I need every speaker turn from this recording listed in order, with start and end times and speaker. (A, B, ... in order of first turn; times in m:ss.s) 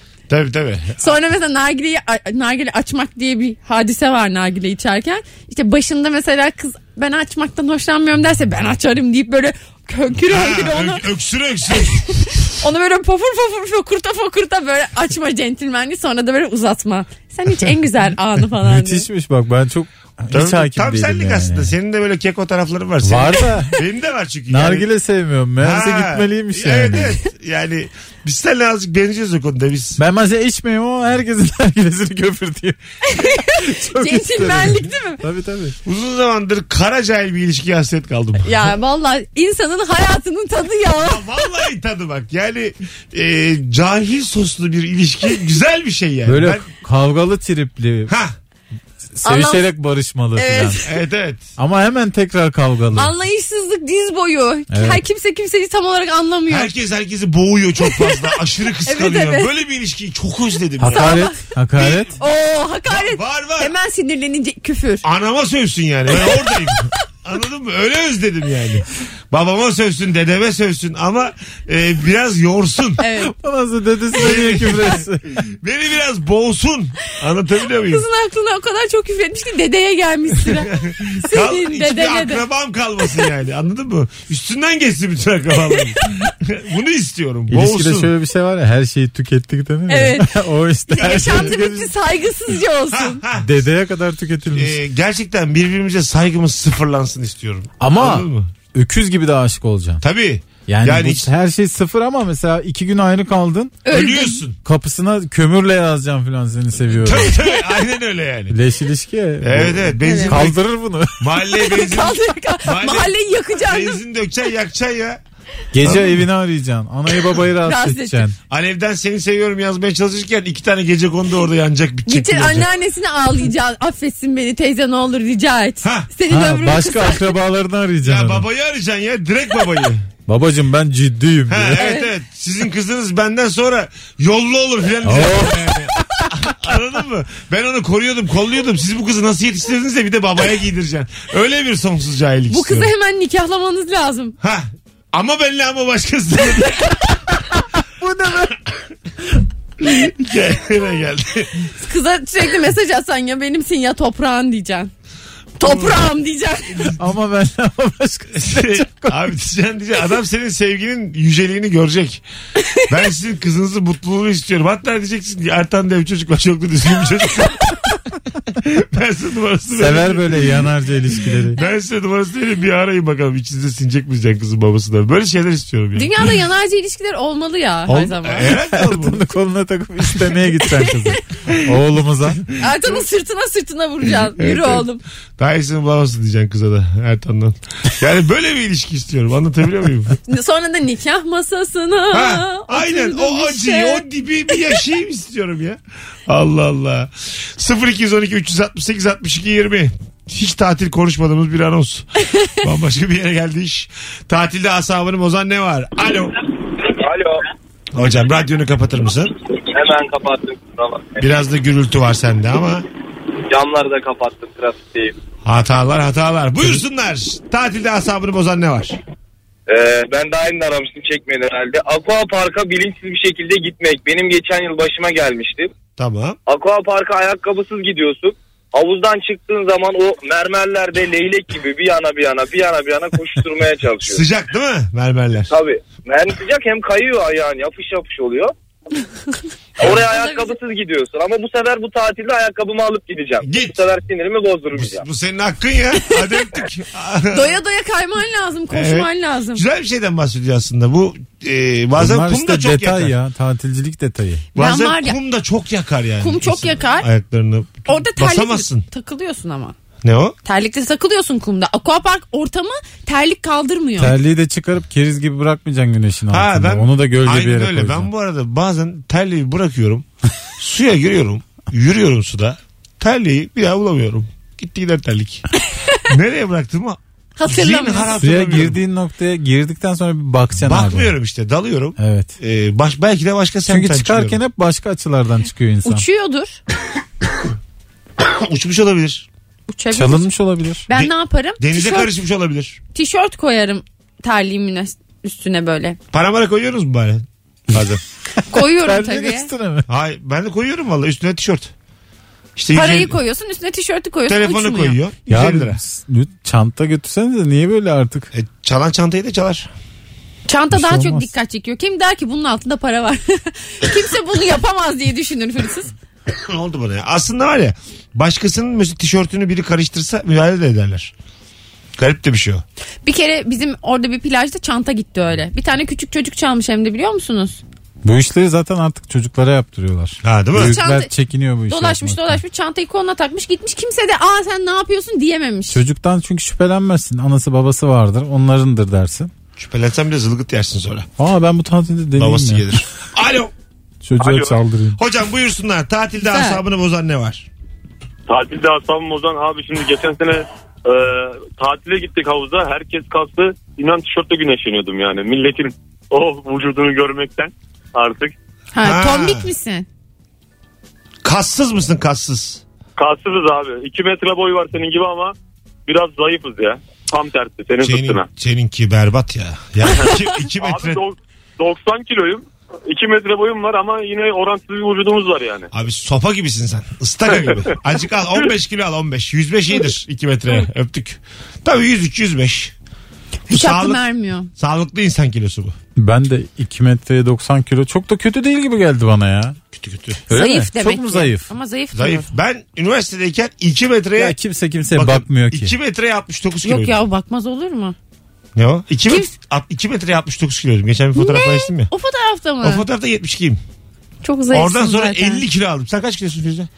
0:00.3-0:01.2 A
0:01.0-0:11.1 B
0:10.3-0:12.0 A
0:11.8-0:19.1 B
0:18.6-0:21.7 C
0:20.3-0:24.9 A
0:23.0-0:23.7 C
0:24.5-0:27.2 C
0:25.6-0:30.0 A
0:30.0-0:35.8 C
0:33.0-0:35.2 B
0:35.8-0:38.5 A
0:38.4-0:41.4 B
0:41.0-0:46.6 A
0:46.2-0:48.1 C
0:48.1-0:48.4 A
0:49.2-0:50.8 C
0:49.2-0:49.6 B
0:50.3-0:50.8 B
0:50.8-0:51.5 A
0:51.6-0:53.1 C
0:52.9-0:56.7 B
0:54.7-0:55.0 C
0:56.5-1:01.2 A
0:57.8-0:59.5 B
1:00.8-1:02.1 C
1:00.9-1:05.0 B
1:02.9-1:03.7 A
1:05.0-1:13.0 A
1:06.2-1:06.6 B
1:13.0-1:13.3 B
1:13.3-1:15.3 C
1:14.1-1:18.0 A
1:17.9-1:22.4 B
1:20.5-1:28.1 A
1:23.0-1:23.3 B
1:27.5-1:31.9 C
1:29.9-1:33.2 B
1:32.9-1:33.5 A
1:33.4-1:34.8 C
1:34.5-1:38.5 A
1:37.8-1:40.0 C
1:40.0-1:41.3 A
1:40.6-1:43.8 C
1:43.8-1:44.4 B
1:43.9-1:44.6 A
1:44.6-1:47.4 C
1:47.0-1:48.6 A
1:48.5-1:51.3 C
1:49.4-1:50.6 A
1:50.0-1:50.4 B
1:51.2-1:55.2 A
1:51.6-1:54.0 B
1:55.7-1:58.4 C
1:55.8-1:56.1 A
1:57.6-1:58.3 B
1:58.5-2:02.7 A
2:02.1-2:07.3 B
2:05.8-2:06.1 A
2:06.3-2:08.4 C
2:08.0-2:10.1 A
2:10.3-2:11.8 C
2:11.5-2:22.9 A
2:11.8-2:12.1 B
2:15.0-2:16.3 C
2:22.5-2:24.4 B
2:24.4-2:27.0 A
2:27.8-2:28.6 C
2:29.8-2:31.7 A
2:31.8-2:34.9 B
2:35.6-2:37.0 B
2:35.6-2:36.0 A
2:37.0-2:39.2 C
2:38.4-2:42.2 A
2:42.9-2:48.0 A
2:48.6-2:50.6 A
2:49.7-2:51.6 C
2:51.5-2:56.1 A
2:55.9-2:58.5 B
2:57.9-2:59.2 A
2:58.6-3:02.4 C
3:00.6-3:01.2 B
3:02.6-3:05.0 B
3:04.4-3:10.2 A
3:10.3-3:14.8 B
3:12.1-3:26.4 A
3:26.8-3:27.4 D
3:27.9-3:29.3 A
3:29.7-3:31.4 D
3:31.2-3:32.8 A
3:33.5-3:35.1 D
3:35.4-3:39.0 A
3:39.7-3:45.7 D
3:46.0-3:46.4 A
3:46.4-3:54.2 D
3:54.0-3:55.5 A
3:55.5-3:58.5 D
3:59.8-4:05.1 D
3:59.9-4:00.6 B
4:03.4-4:03.8 A
4:04.7-4:07.6 A
4:07.3-4:09.6 B
4:08.7-4:13.1 A
4:12.0-4:14.4 C
4:14.6-4:18.8 A
4:14.6-4:15.2 B
4:16.2-4:17.1 B
4:17.8-4:19.8 B
4:20.0-4:20.4 A
4:20.4-4:24.2 B
4:24.0-4:28.1 C
4:26.3-4:35.4 A
4:35.7-4:36.1 B
4:36.1-4:38.8 A
4:37.4-4:38.2 B
4:38.2-4:41.1 C
4:40.6-4:44.4 A
4:42.0-4:42.3 C
4:43.7-4:46.0 C
4:45.8-4:46.6 B
4:48.2-4:49.3 A
4:49.7-4:50.3 B
4:49.9-4:50.8 C
4:50.9-4:52.1 B
4:50.9-4:52.8 A
4:52.9-4:56.0 B
4:56.1-4:57.8 A
4:57.7-4:59.8 C
4:58.5-4:59.5 B
4:59.9-5:01.7 A
5:02.6-5:03.2 A
5:02.7-5:05.0 B
5:04.3-5:05.8 A
5:05.3-5:08.3 C
5:08.3-5:09.7 A
5:10.5-5:15.9 B
5:10.7-5:11.3 C
5:16.3-5:21.1 A
5:22.0-5:22.6 A
5:23.0-5:27.6 B
5:28.0-5:32.4 C
5:30.2-5:30.8 A
5:30.6-5:31.1 B
5:31.7-5:35.8 B
5:35.7-5:39.3 C
5:39.6-5:41.1 A
5:41.2-5:42.6 C
5:42.2-5:43.5 A
5:44.0-5:45.0 C
5:45.0-5:47.5 A
5:46.2-5:46.6 B
5:48.3-5:58.3 E
5:58.7-5:59.9 B
5:58.8-5:59.5 A
6:01.2-6:02.6 A
6:03.0-6:05.3 E
6:05.9-6:08.2 E
6:07.8-6:11.0 A
6:10.0-6:15.7 E
6:15.7-6:22.7 A
6:23.5-6:24.5 B
6:23.5-6:24.0 A
6:24.6-6:25.8 A
6:26.0-6:29.6 C
6:29.7-6:30.2 A
6:30.3-6:31.5 C
6:30.3-6:32.3 B
6:31.9-6:34.4 A
6:34.2-6:35.7 C
6:34.9-6:37.0 A
6:36.6-6:38.0 B
6:38.6-6:41.9 A
6:41.2-6:42.8 B
6:42.6-6:43.6 A
6:44.2-6:45.4 B
6:44.5-6:46.7 A